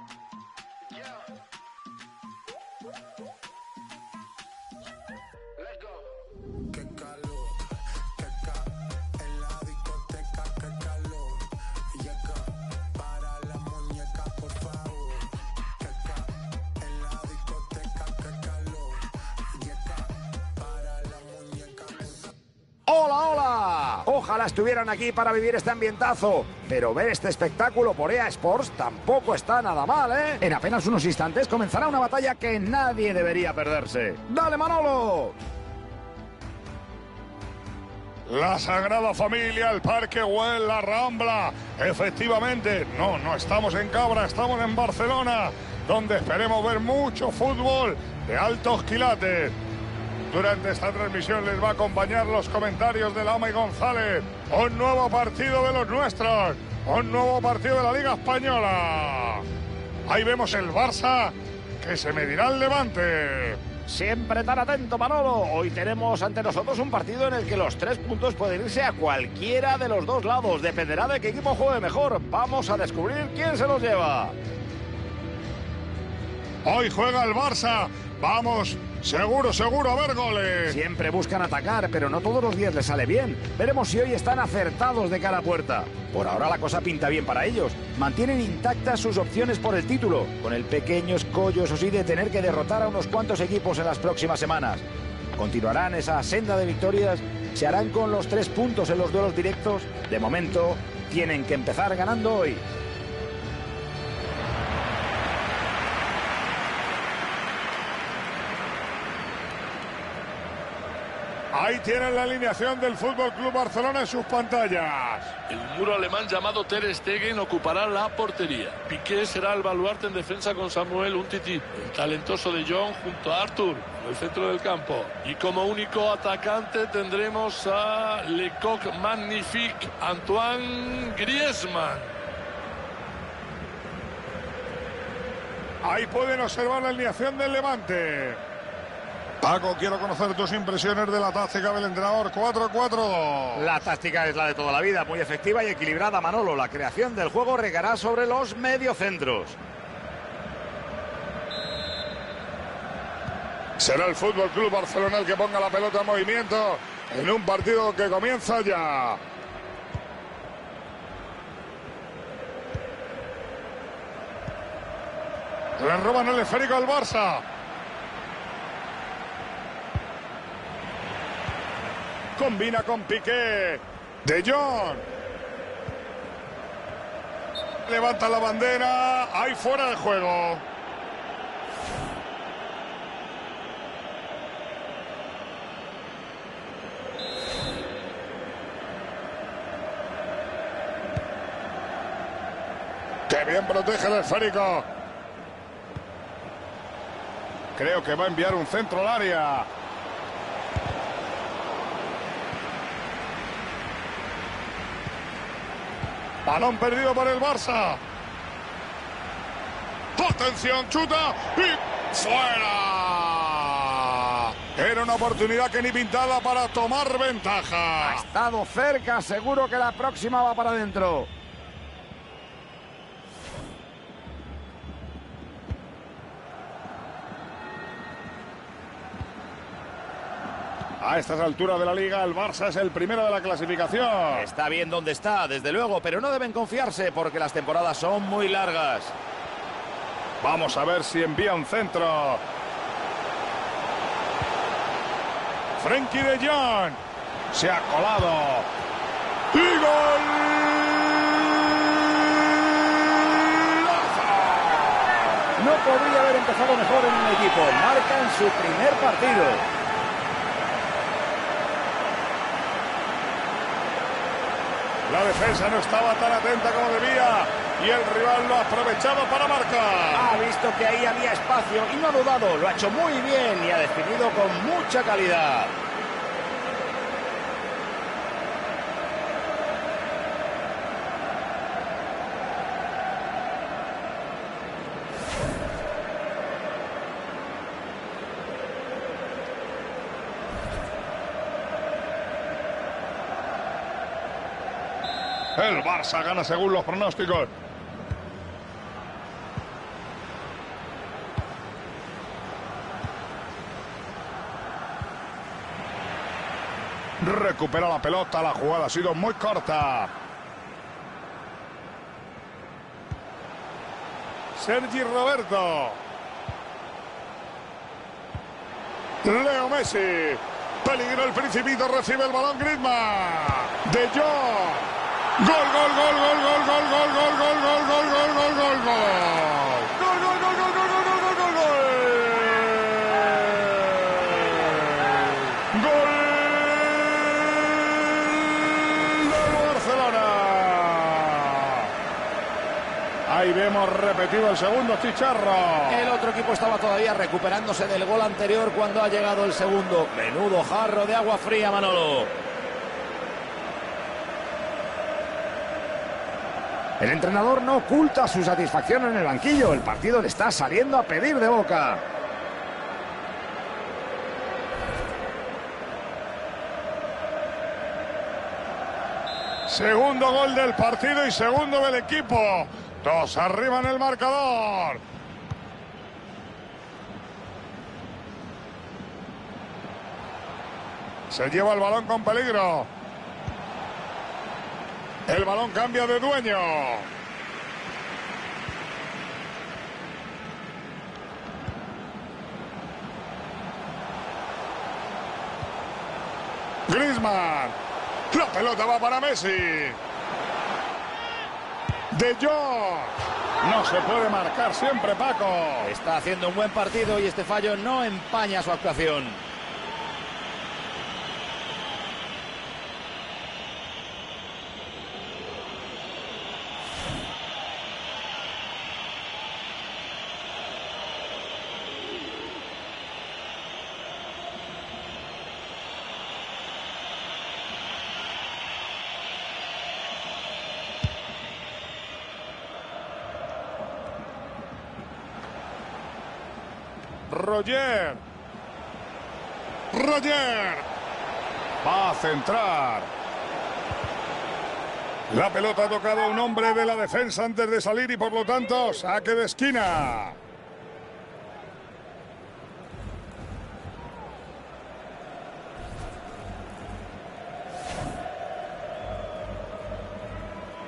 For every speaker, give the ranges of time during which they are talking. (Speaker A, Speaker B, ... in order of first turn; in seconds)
Speaker A: 22.9-35.4, 63.9-74.3, 80.7-94.8, 95.4-102.6, 143.6-149.6, 218.0-221.3, 234.3-239.2, 255.6-259.7, 270.1-275.8, 345.9-352.3, 357.0-362.0, 405.8-409.4
Speaker B: 38.3-49.5, 50.3-59.5, 60.1-63.6, 76.7-80.8, 111.5-115.3, 135.8-138.4, 139.4-143.7, 153.8-159.2, 165.8-167.4, 172.4-175.0, 177.9-180.6, 193.3-194.9, 197.8-199.7, 206.4-208.0, 210.2-218.2, 231.0-234.5, 240.4-242.4, 245.8-247.0, 247.5-248.7, 249.5-255.4, 265.1-270.4, 295.6-297.5, 307.2-310.1, 314.6-316.0, 319.2-341.9, 343.3-346.1, 369.7-375.0, 381.3-382.9, 385.3-387.1, 396.9-397.8, 398.3-400.0, 402.1-405.9, 437.3-438.2, 439.9-440.9, 441.8-443.1, 445.3-450.4
Speaker C: 115.5-132.1